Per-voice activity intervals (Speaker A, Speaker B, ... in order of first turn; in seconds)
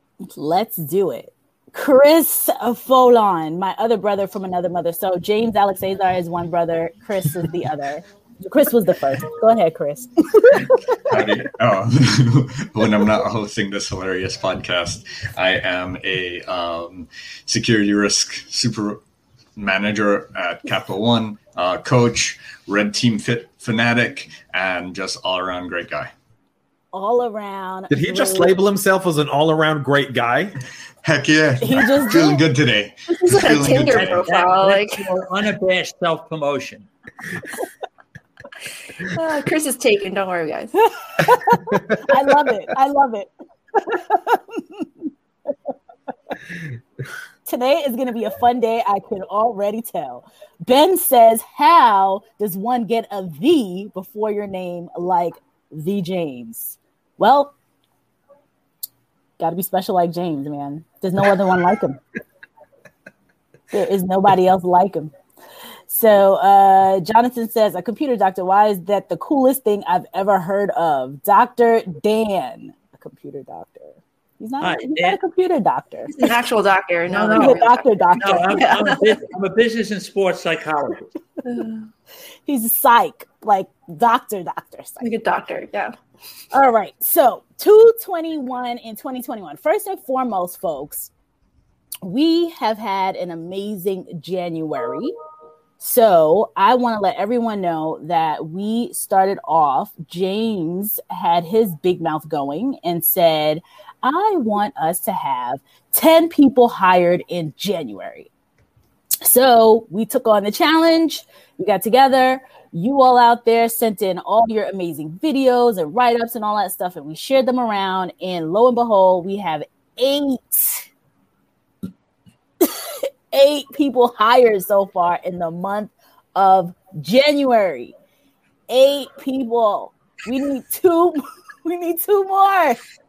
Speaker A: 0.3-10.9, 26.9-28.5, 31.6-32.4, 41.2-43.3, 43.8-44.9, 47.5-57.5, 59.4-62.0, 63.7-65.1, 65.9-76.2, 77.1-78.7, 82.5-85.1, 86.5-91.1, 92.0-95.1, 95.8-108.3, 109.2-120.8, 122.6-127.9, 128.7-132.8
Speaker B: 11.1-19.0, 19.6-26.1, 31.0-34.3
Speaker C: 27.9-30.6
Speaker D: 33.2-35.1, 39.0-40.8, 76.1-79.1, 81.4-81.8, 85.0-85.9
Speaker E: 33.4-36.9, 74.6-75.2, 77.2-77.6, 78.2-81.1